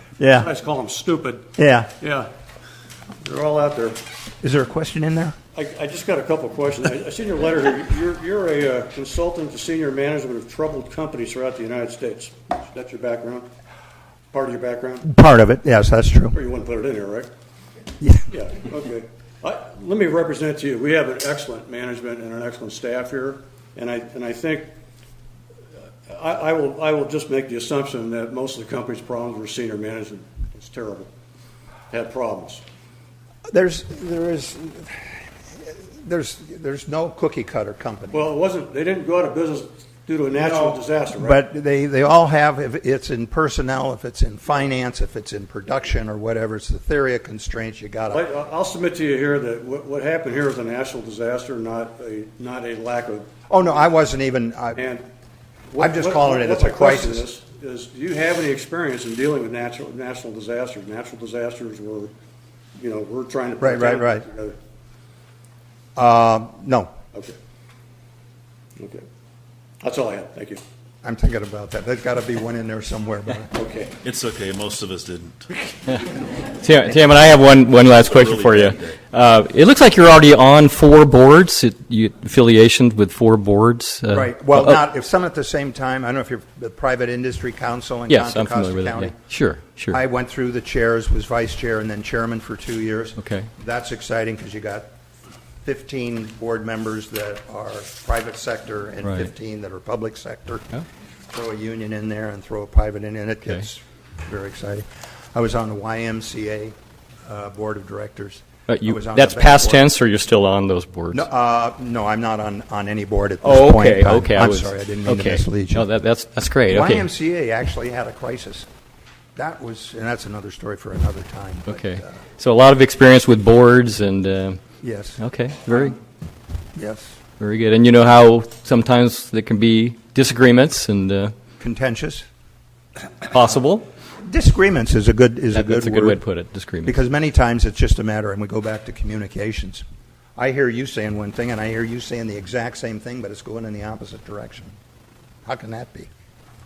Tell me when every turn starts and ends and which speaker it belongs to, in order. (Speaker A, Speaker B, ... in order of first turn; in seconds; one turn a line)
Speaker A: 0.2-0.5
Speaker B: 0.4-2.3
Speaker A: 1.6-1.9
Speaker B: 3.2-4.0
Speaker A: 4.4-5.4
Speaker B: 5.5-13.5
Speaker B: 14.3-15.1
Speaker A: 15.0-16.4
Speaker B: 16.3-17.3
Speaker A: 18.0-18.2
Speaker B: 18.3-24.7
Speaker B: 26.1-31.1
Speaker B: 31.9-32.6
Speaker A: 33.5-38.2
Speaker B: 38.1-41.4
Speaker A: 40.3-48.2
Speaker B: 48.1-53.3
Speaker A: 53.5-54.8
Speaker B: 54.8-55.0
Speaker B: 55.7-62.1
Speaker A: 55.8-57.3
Speaker B: 62.8-64.5
Speaker A: 63.6-64.2
Speaker A: 66.0-66.9
Speaker B: 68.8-69.0
Speaker B: 69.8-70.6
Speaker A: 71.0-73.5
Speaker B: 73.5-73.9
Speaker C: 74.0-76.4
Speaker D: 76.5-84.8
Speaker C: 77.9-78.9
Speaker A: 84.1-89.2
Speaker D: 88.1-90.0
Speaker A: 89.9-94.9
Speaker D: 93.2-93.5
Speaker A: 95.6-100.7
Speaker D: 99.0-99.3
Speaker A: 101.3-106.7
Speaker A: 107.2-109.8
Speaker D: 108.7-111.3
Speaker A: 111.1-115.9
Speaker D: 113.4-117.1
Speaker A: 116.7-118.7
Speaker A: 119.3-122.2
Speaker D: 121.7-124.6
Speaker A: 124.8-125.2
Speaker D: 125.2-125.9
Speaker A: 126.8-127.2
Speaker D: 127.4-131.3
Speaker A: 131.6-132.2
Speaker D: 133.3-133.8
Speaker A: 134.2-136.2
Speaker D: 135.5-136.9
Speaker A: 136.8-139.8
Speaker A: 140.4-144.7
Speaker A: 145.4-146.1